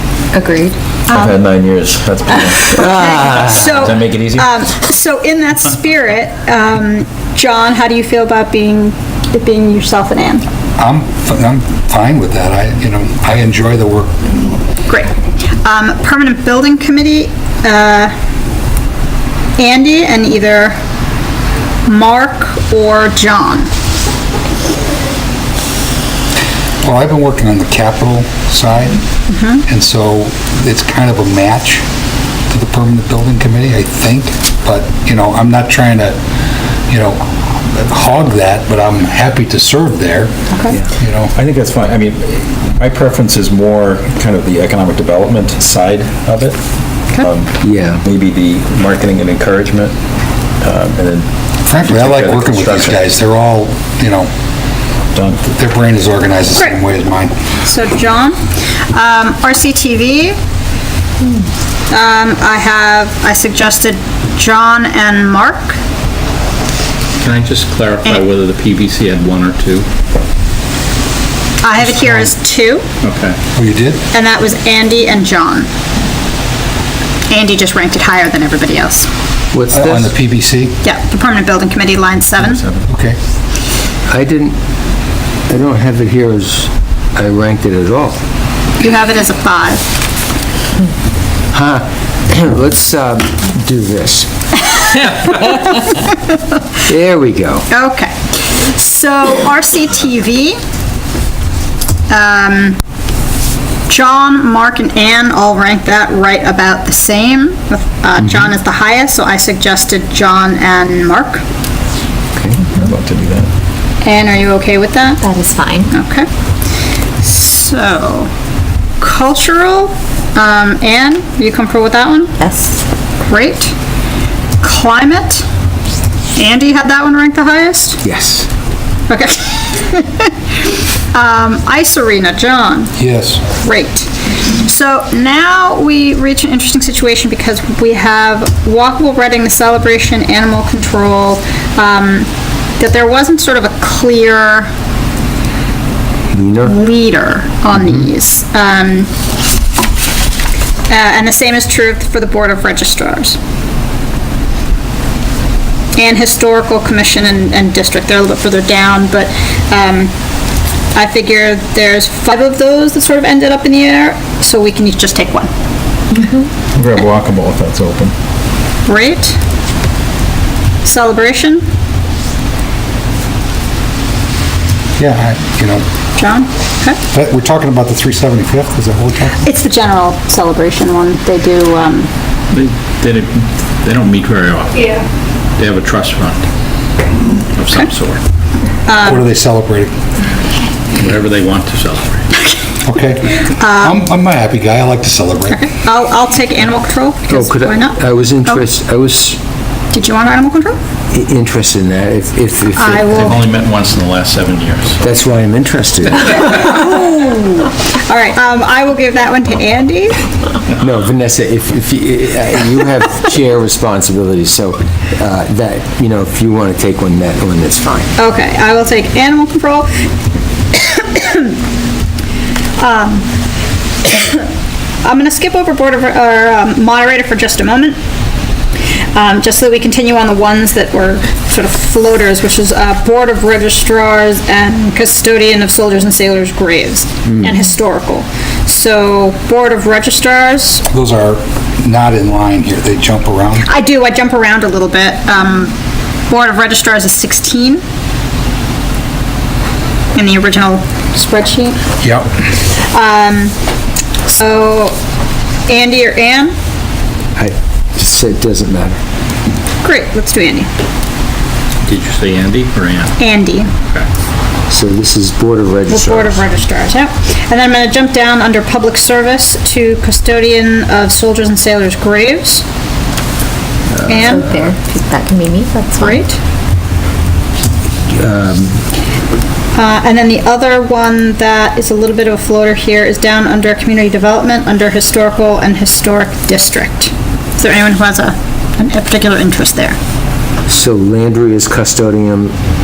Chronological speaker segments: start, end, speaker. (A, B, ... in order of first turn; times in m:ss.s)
0:00.3-0:00.8 A
0:01.1-0:01.4 B
0:01.1-0:04.5 C
0:02.7-0:10.4 B
0:02.8-0:03.5 D
0:10.8-0:14.3 E
0:14.9-0:15.1 B
0:15.6-0:18.1 B
0:19.6-0:20.8 B
0:21.9-0:23.7 B
0:26.8-0:29.0 E
0:29.3-0:29.6 B
0:29.6-0:31.8 E
0:32.5-0:36.2 E
0:36.9-0:40.4 E
0:40.5-0:40.8 B
0:41.0-0:41.3 E
0:41.4-0:46.6 C
0:47.2-0:49.9 C
0:47.6-0:48.0 D
0:50.6-0:53.0 C
0:51.7-0:54.3 E
0:55.2-0:55.5 C
0:55.5-0:57.3 E
0:57.6-0:58.4 B
0:58.9-1:00.4 B
1:01.9-1:05.8 B
1:07.2-1:09.9 F
1:11.6-1:12.8 B
1:11.8-1:12.4 E
1:13.0-1:13.4 F
1:13.6-1:14.0 E
1:14.1-1:15.7 B
1:17.3-1:19.1 B
1:19.5-1:20.1 D
1:19.7-1:20.8 E
1:20.8-1:22.6 B
1:22.9-1:23.2 E
1:24.1-1:24.6 D
1:25.5-1:28.2 D
1:28.8-1:29.8 B
1:31.5-1:34.3 D
1:36.9-1:37.7 D
1:37.7-1:40.6 B
1:42.1-1:42.8 B
1:43.9-1:51.4 B
1:52.4-1:52.7 D
1:52.7-1:53.5 C
1:54.0-1:55.2 B
1:55.2-1:55.9 A
1:55.9-1:56.3 B
1:57.2-1:58.3 B
1:59.0-2:02.4 B
2:02.4-2:02.8 A
2:03.2-2:03.7 B
2:04.6-2:05.4 B
2:06.4-2:08.0 B
2:08.0-2:08.5 D
2:09.1-2:10.3 B
2:11.1-2:12.9 B
2:13.0-2:13.4 E
2:13.5-2:24.7 B
2:26.3-2:26.7 D
2:26.6-2:29.1 B
2:30.9-2:33.4 B
2:36.0-2:40.1 B
2:41.0-2:45.5 B
2:46.8-2:48.1 C
2:48.9-2:49.4 B
2:50.8-2:51.6 B
2:55.0-2:55.8 E
2:56.2-2:57.0 B
2:57.1-2:59.4 E
2:59.4-3:02.1 B
3:02.5-3:04.8 F
3:05.6-3:06.4 F
3:07.6-3:08.2 F
3:08.9-3:09.3 B
3:09.0-3:09.9 E
3:11.0-3:12.3 F
3:12.8-3:15.6 E
3:13.4-3:14.0 B
3:15.5-3:18.7 B
3:17.3-3:19.4 D
3:19.9-3:20.8 B
3:21.1-3:23.4 D
3:22.8-3:23.4 B
3:23.1-3:25.1 F
3:25.0-3:26.7 D
3:26.5-3:30.2 B
3:30.8-3:38.1 D
3:38.2-3:39.9 B
3:40.8-3:41.6 B
3:42.8-3:43.3 B
3:44.0-3:44.4 B
3:45.0-3:48.0 B
3:49.2-4:00.8 B
4:00.9-4:03.7 E
4:03.6-4:05.8 B
4:06.3-4:07.8 B
4:10.2-4:11.8 B
4:12.0-4:12.3 E
4:12.8-4:13.5 B
4:14.3-4:15.0 B
4:15.7-4:16.5 B
4:17.4-4:19.0 D
4:19.8-4:20.7 B
4:21.8-4:23.2 F
4:23.2-4:23.7 B
4:24.7-4:26.4 D
4:25.9-4:32.6 B
4:33.9-4:34.4 D
4:34.0-4:34.7 B
4:34.1-4:36.2 A
4:36.0-4:36.4 B
4:38.1-4:38.8 D
4:39.8-4:50.0 B
4:50.7-4:52.6 D